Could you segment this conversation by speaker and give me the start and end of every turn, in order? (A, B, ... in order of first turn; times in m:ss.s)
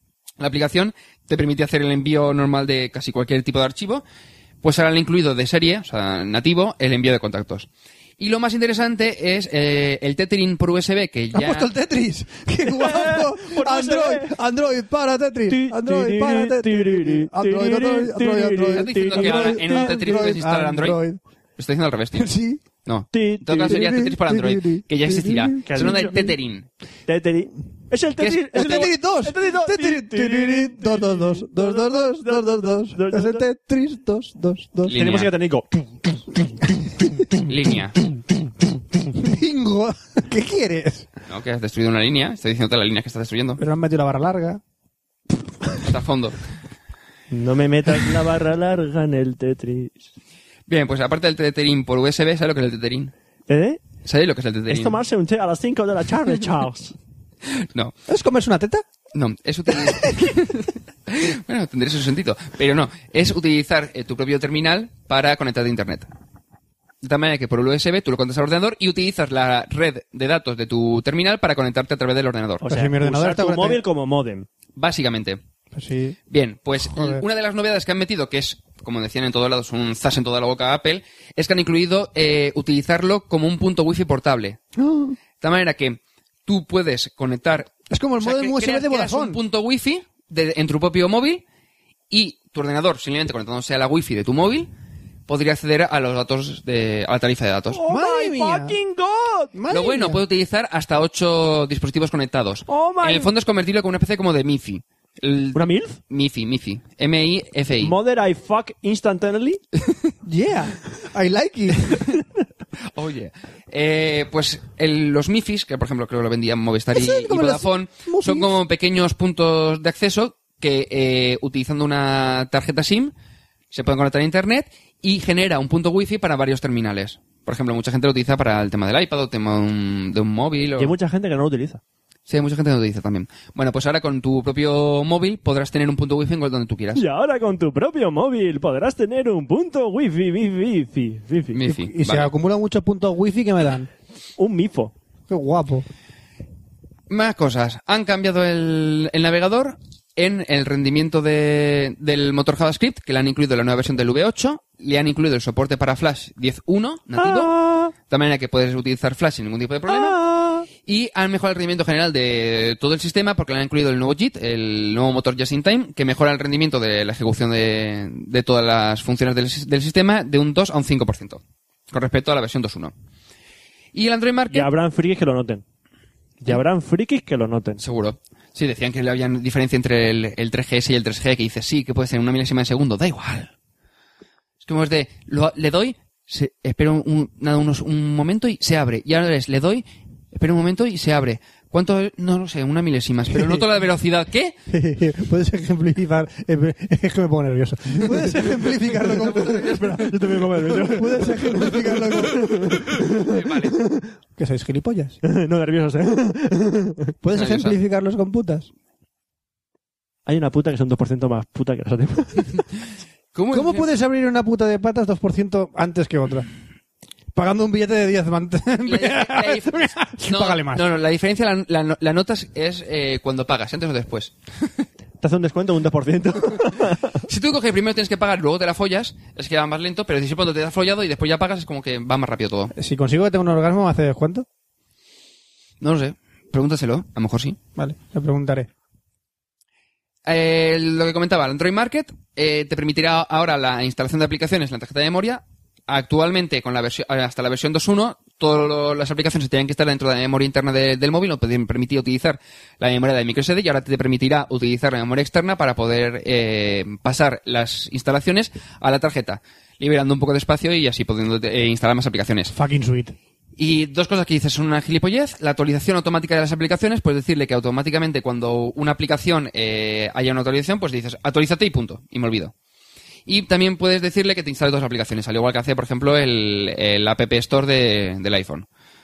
0:00.4-0:04.0 A
0:04.6-0:07.7 A
0:08.2-0:11.7 A
0:11.3-0:21.2 B
0:12.6-0:14.3 C
0:15.5-0:20.0 C
0:18.7-0:21.0 A
0:21.6-0:22.3 A
0:22.2-0:22.6 B
0:22.8-0:26.7 A
0:23.1-0:23.8 C
0:23.6-0:26.3 B
0:25.6-0:26.2 C
0:27.1-0:33.4 C
0:28.2-0:28.6 A
0:28.5-0:35.0 B
0:34.9-0:35.3 A
0:34.9-0:35.9 C
0:37.4-0:38.0 A
0:39.1-0:41.1 B
0:41.3-0:43.6 A
0:43.6-0:44.6 B
0:45.8-0:46.4 A
0:47.3-0:50.1 C
0:50.7-0:53.1 A
0:53.5-0:53.8 C
0:54.0-0:55.0 A
0:54.7-0:56.9 C
0:57.6-0:57.9 A
0:58.1-0:58.8 B
0:59.1-1:06.1 A
0:59.8-1:00.3 B
1:07.0-1:12.6 A
1:12.6-1:14.5 C
1:12.7-1:13.8 B
1:14.8-1:15.4 A
1:15.7-1:16.2 B
1:16.3-1:24.6 A
1:16.9-1:17.2 B
1:24.8-1:25.2 B
1:25.4-1:31.4 A
1:27.9-1:29.4 B
1:32.1-1:34.7 A
1:35.3-1:37.8 A
1:37.7-1:39.5 C
1:37.9-1:38.8 B
1:39.5-1:40.2 B
1:39.7-1:47.9 A
1:42.7-1:43.3 C
1:45.5-1:46.0 C
1:47.8-1:49.6 C
1:50.2-1:52.0 B
1:52.9-2:03.1 A
1:56.9-1:58.5 B
2:03.7-2:10.9 A
2:10.8-2:11.8 C
2:12.3-2:17.0 A
2:16.9-2:21.6 C
2:21.5-2:22.3 A
2:21.7-2:23.9 B
2:24.4-2:24.9 C
2:25.3-2:25.8 B
2:27.1-2:40.2 A
2:37.2-2:37.9 C
2:39.9-2:40.6 C
2:40.8-2:52.9 A
2:53.9-2:54.7 A
2:54.5-2:55.6 C
2:56.4-2:57.8 C
2:57.8-3:03.5 A
3:04.6-3:14.5 A
3:13.3-3:13.6 B
3:14.7-3:23.1 B
3:18.1-3:23.3 C
3:23.2-3:23.8 A
3:24.4-3:25.2 B
3:25.2-3:27.0 C
3:27.2-3:28.7 B
3:27.3-3:27.8 A
3:30.2-3:32.6 C
3:33.3-3:33.9 A
3:33.5-3:36.5 B
3:37.3-3:40.8 B
3:38.8-3:44.8 A
3:45.2-3:47.2 C
3:47.2-3:52.7 A
3:52.7-3:54.4 B
3:55.8-3:57.6 A
3:57.8-3:58.7 B
4:00.2-4:22.5 A
4:22.5-4:23.1 B
4:23.6-4:32.5 A
4:33.2-4:38.7 A